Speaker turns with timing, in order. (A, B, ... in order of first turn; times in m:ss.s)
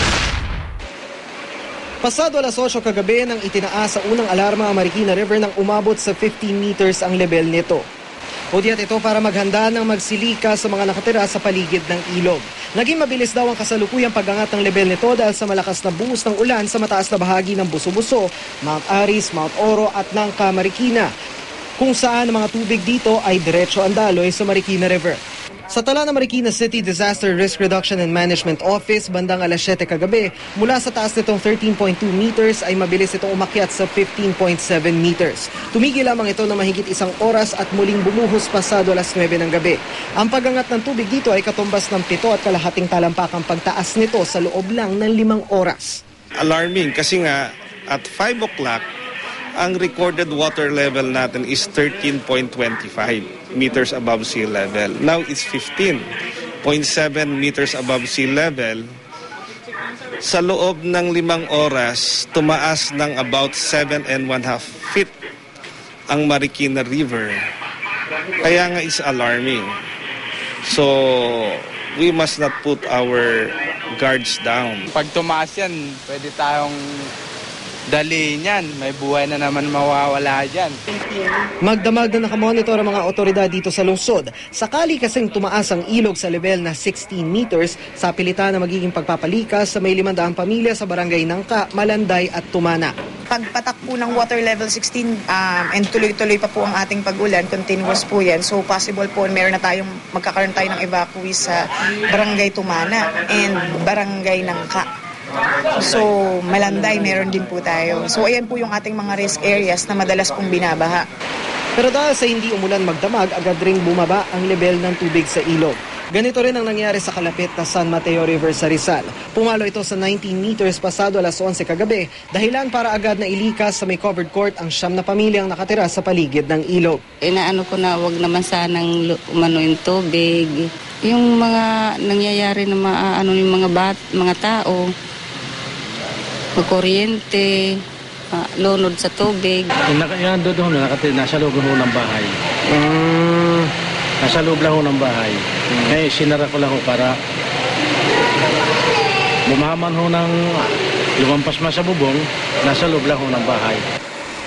0:02.0-0:07.8 A
0:08.5-0:21.1 A
0:21.8-0:25.2 A
0:25.7-0:46.0 A
0:46.4-0:48.9 B
0:49.6-0:56.1 B
0:56.6-0:58.8 B
1:00.2-1:05.1 B
1:06.1-1:07.4 B
1:08.4-1:09.7 B
1:10.6-1:14.8 B
1:14.9-1:16.8 C
1:17.9-1:20.8 C
1:21.6-1:32.9 A
1:33.3-1:44.9 D
1:45.8-1:51.1 D
1:51.8-2:07.0 A
2:07.2-2:14.9 E
2:16.6-2:17.5 E
2:18.3-2:19.7 E
2:19.9-2:27.1 F
2:29.5-2:30.6 F
2:31.2-2:33.8 F